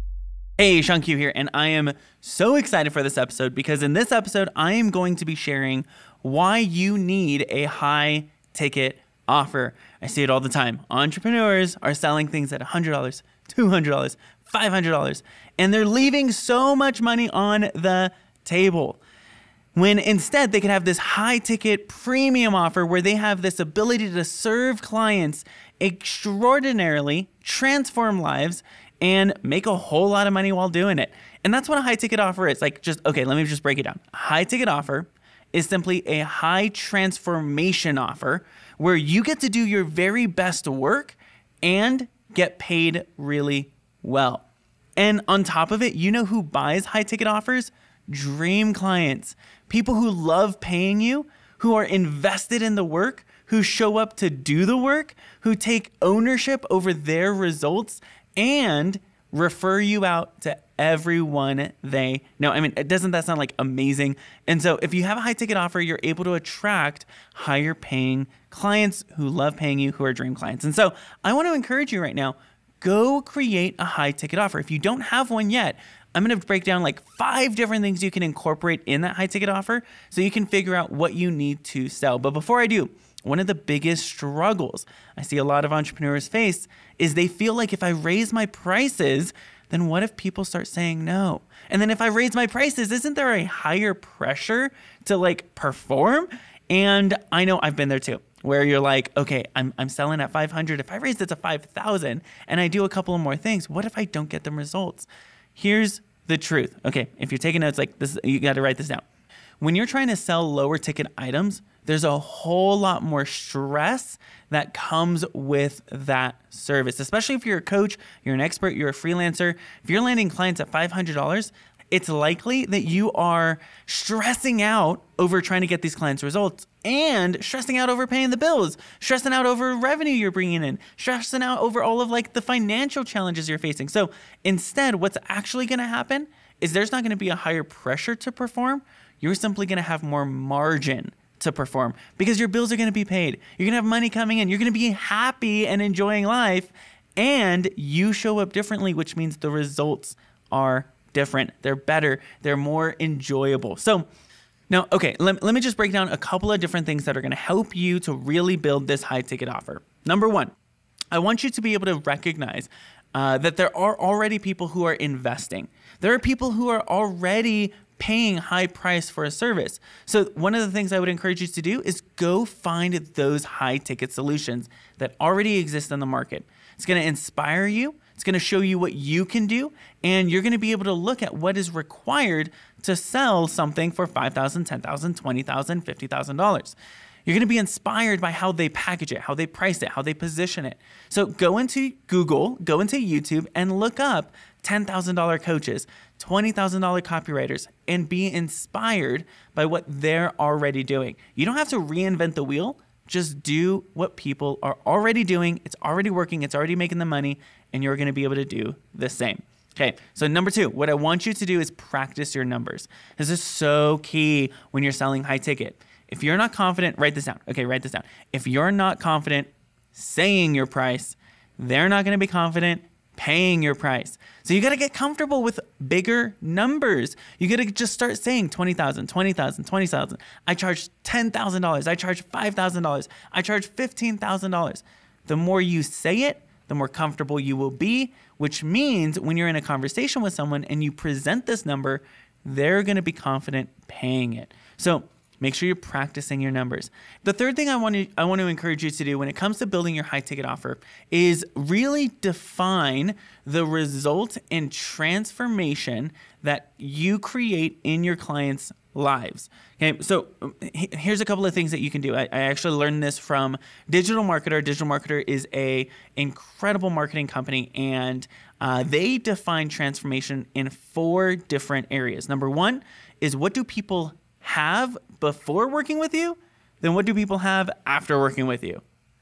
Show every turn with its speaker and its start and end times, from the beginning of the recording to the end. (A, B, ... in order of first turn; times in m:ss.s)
0:00.6-0:19.0 A
0:19.7-0:44.4 A
0:45.0-1:49.0 A
1:49.6-2:34.1 A
2:34.7-2:40.5 A
2:41.1-4:38.8 A